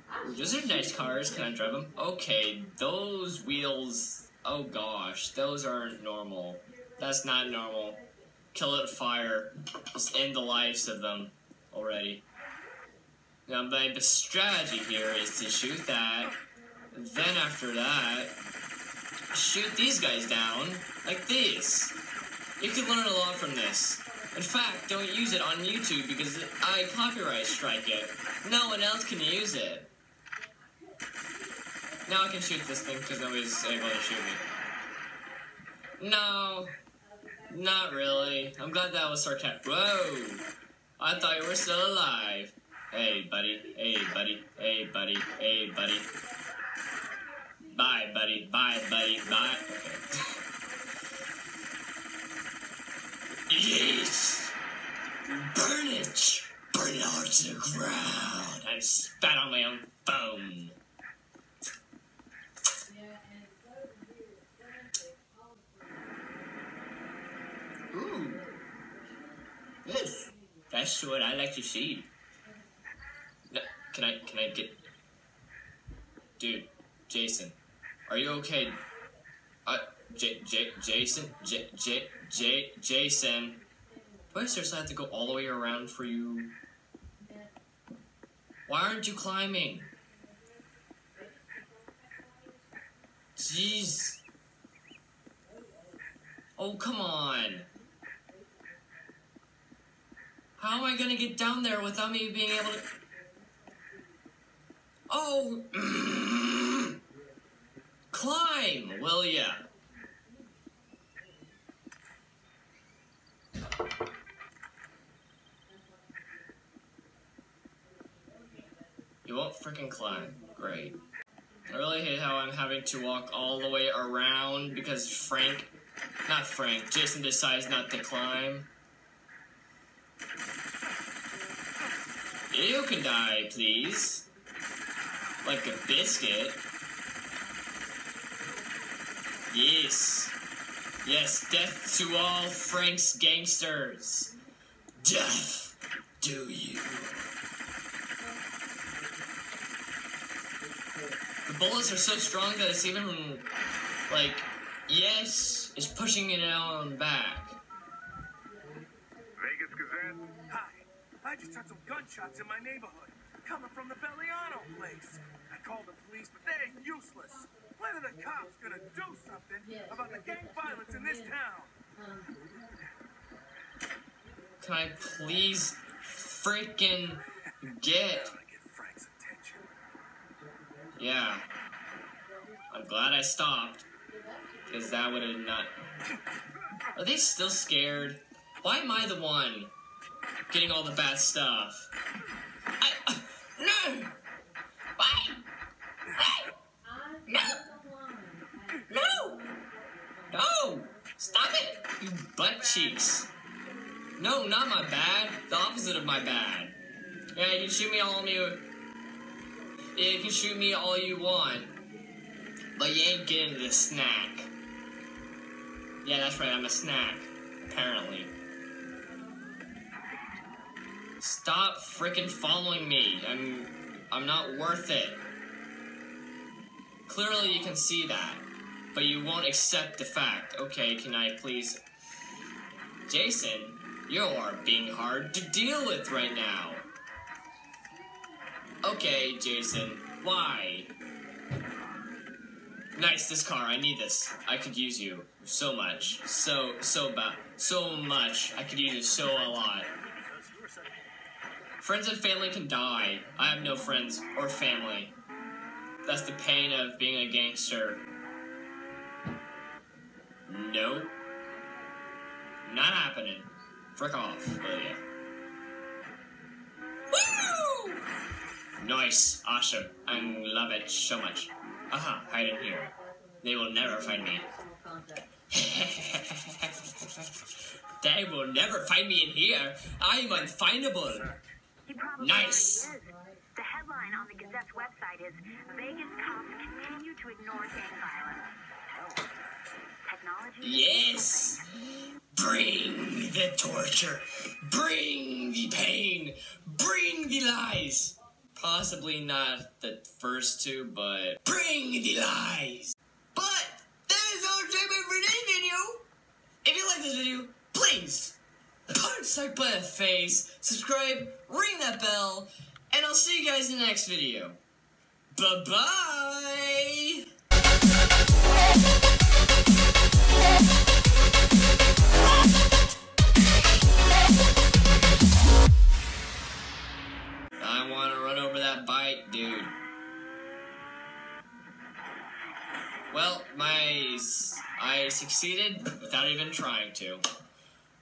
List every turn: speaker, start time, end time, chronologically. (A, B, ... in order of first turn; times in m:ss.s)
0:00.2-0:08.0 A
0:08.5-0:12.2 A
0:13.5-0:16.3 A
0:16.9-0:18.4 A
0:19.3-0:22.0 A
0:22.6-0:29.9 A
0:32.0-0:34.4 A
0:36.0-0:36.7 A
0:37.5-0:40.4 A
0:41.0-0:46.1 A
0:47.7-0:50.4 A
0:53.5-0:54.6 A
0:55.2-1:00.8 A
1:03.3-1:03.6 B
1:04.1-1:04.4 B
1:07.9-1:08.5 A
1:09.8-1:12.1 A
1:13.5-1:14.8 A
1:16.4-1:17.6 A
1:18.1-1:18.8 A
1:19.7-1:23.6 A
1:24.3-1:26.5 A
1:28.7-1:29.9 A
1:33.4-1:34.2 A
1:36.6-1:37.7 A
1:40.6-1:42.8 A
1:45.1-1:47.0 A
1:48.1-1:49.6 A
1:59.2-2:01.0 A
2:01.7-2:05.7 A
2:06.3-2:08.7 A
2:12.5-2:14.3 A
2:15.4-2:16.6 A
2:19.5-2:20.4 A
2:21.0-2:24.3 A
2:25.0-2:27.2 A
2:31.5-2:33.5 A
2:34.1-2:37.6 A
2:39.4-2:51.8 C
2:54.6-2:58.3 A
2:58.1-2:59.7 C
3:01.0-3:01.4 A
3:02.7-3:03.9 A
3:04.7-3:05.7 A
3:07.0-3:09.7 A
3:10.5-3:11.9 A
3:12.8-3:14.1 A
3:15.0-3:15.4 A
3:16.2-3:16.5 A
3:17.3-3:17.6 A
3:17.9-3:18.4 B
3:18.9-3:19.5 A
3:20.3-3:23.3 A
3:24.2-3:26.8 A
3:27.4-3:28.6 A
3:30.0-3:31.7 A
3:32.8-3:34.5 A
3:36.0-3:38.3 A
3:41.2-3:45.2 A
3:47.1-3:51.8 A
3:53.1-3:56.8 A
3:58.8-4:00.9 A
4:03.0-4:09.9 A
4:09.9-4:11.0 C
4:11.8-4:15.2 A
4:16.0-4:18.0 A
4:20.5-4:21.1 A
4:22.6-4:25.0 A
4:27.1-4:28.0 A
4:28.8-4:34.5 A
4:35.5-4:37.1 A
4:38.0-4:41.3 A
4:41.0-4:41.5 C
4:41.9-4:48.5 B
4:42.2-4:42.9 A
4:48.9-4:49.8 C
4:50.0-4:51.8 B
4:50.6-4:51.6 A
4:52.3-5:06.0 A
5:06.6-5:08.4 A
5:08.9-5:14.6 A
5:15.3-5:17.2 A
5:27.6-5:29.7 A
5:33.1-5:37.2 A